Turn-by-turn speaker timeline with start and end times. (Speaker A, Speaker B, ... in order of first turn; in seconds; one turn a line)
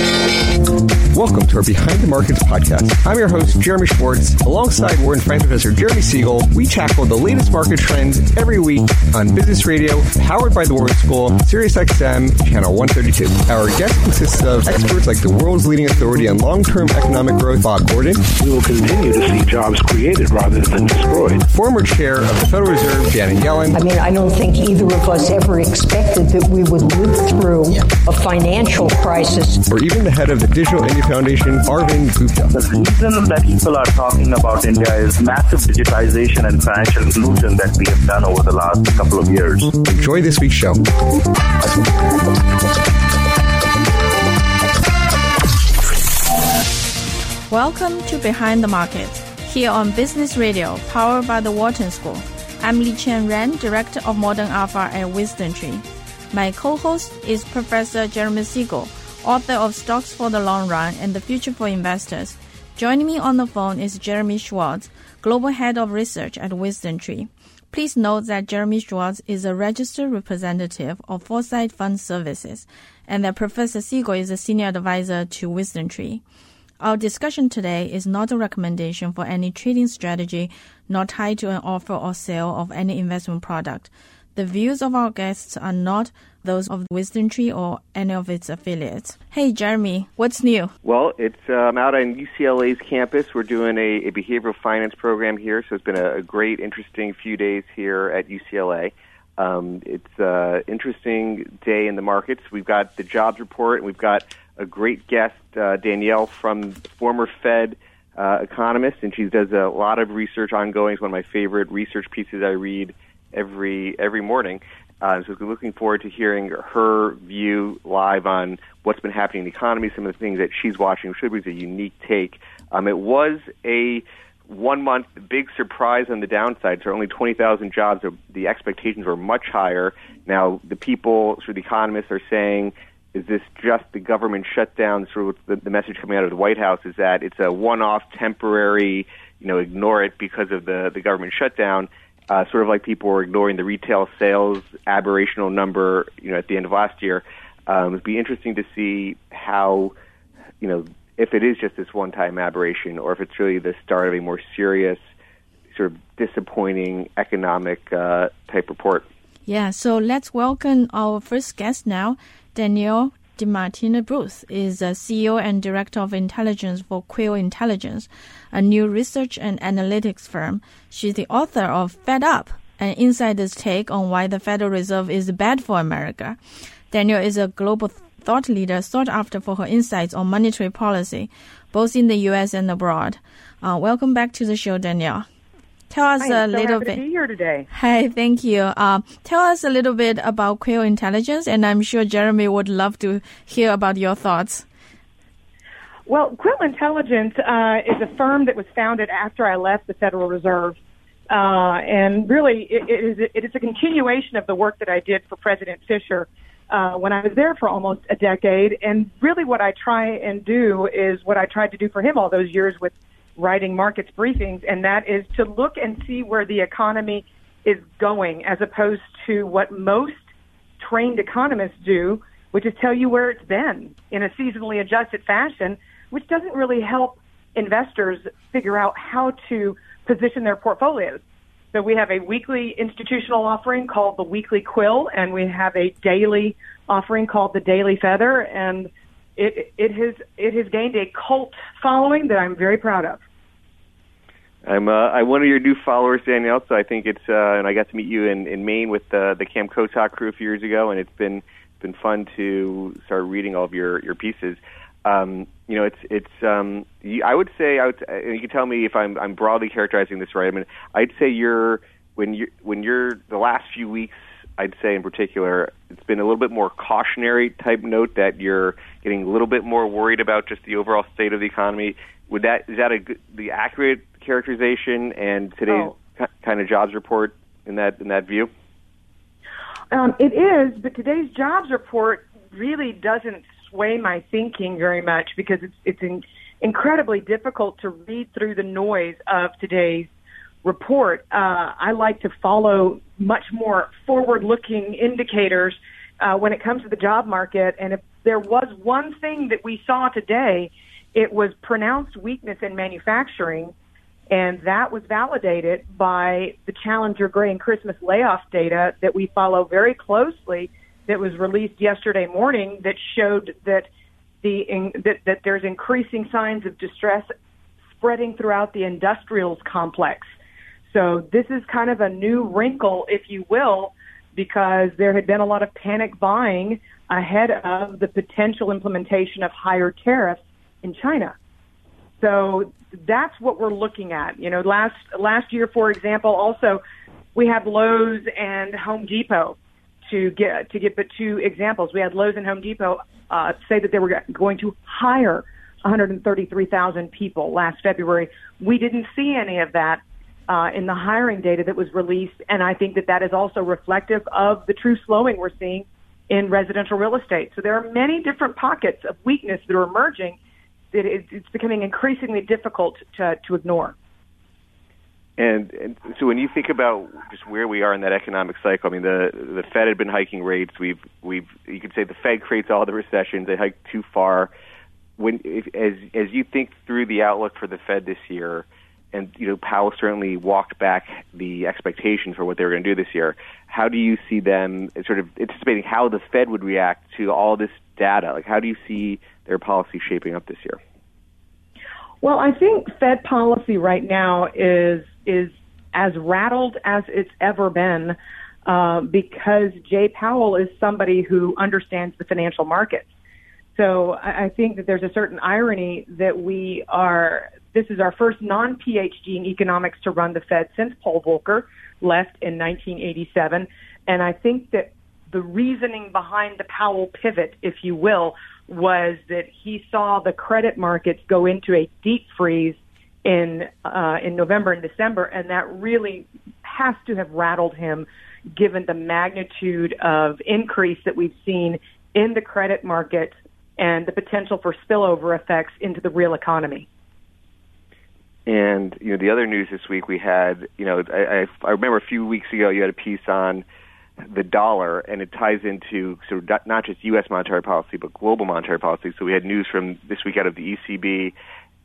Speaker A: 1.1-18.2
Speaker B: 18.4-21.4
Speaker A: 21.5-23.8
Speaker C: 23.7-29.6
Speaker A: 29.7-32.5
Speaker D: 32.5-39.7
Speaker A: 39.9-40.9
Speaker E: 47.5-76.2
Speaker E: 76.8-90.7
Speaker F: 90.8-149.9
Speaker F: 150.6-155.0
Speaker F: 155.7-159.1
Speaker E: 159.5-176.4
Speaker E: 176.9-185.3
Speaker E: 185.9-187.0
Speaker G: 186.2-187.7
Speaker E: 187.7-194.7
Speaker G: 196.1-200.8
Speaker G: 201.3-220.2
Speaker G: 220.8-231.2
Speaker G: 231.7-243.2
Speaker F: 244.7-278.5
Speaker G: 279.9-290.1
Speaker G: 290.6-303.7
Speaker G: 304.3-313.9
Speaker G: 314.4-317.3
Speaker G: 318.0-320.3
Speaker G: 320.9-331.4
Speaker G: 332.2-336.8
Speaker G: 337.4-360.4
Speaker G: 360.9-363.9
Speaker F: 365.4-374.5
Speaker F: 375.2-390.8
Speaker G: 392.2-403.1
Speaker G: 403.8-436.9
Speaker F: 438.5-443.6
Speaker F: 444.3-451.3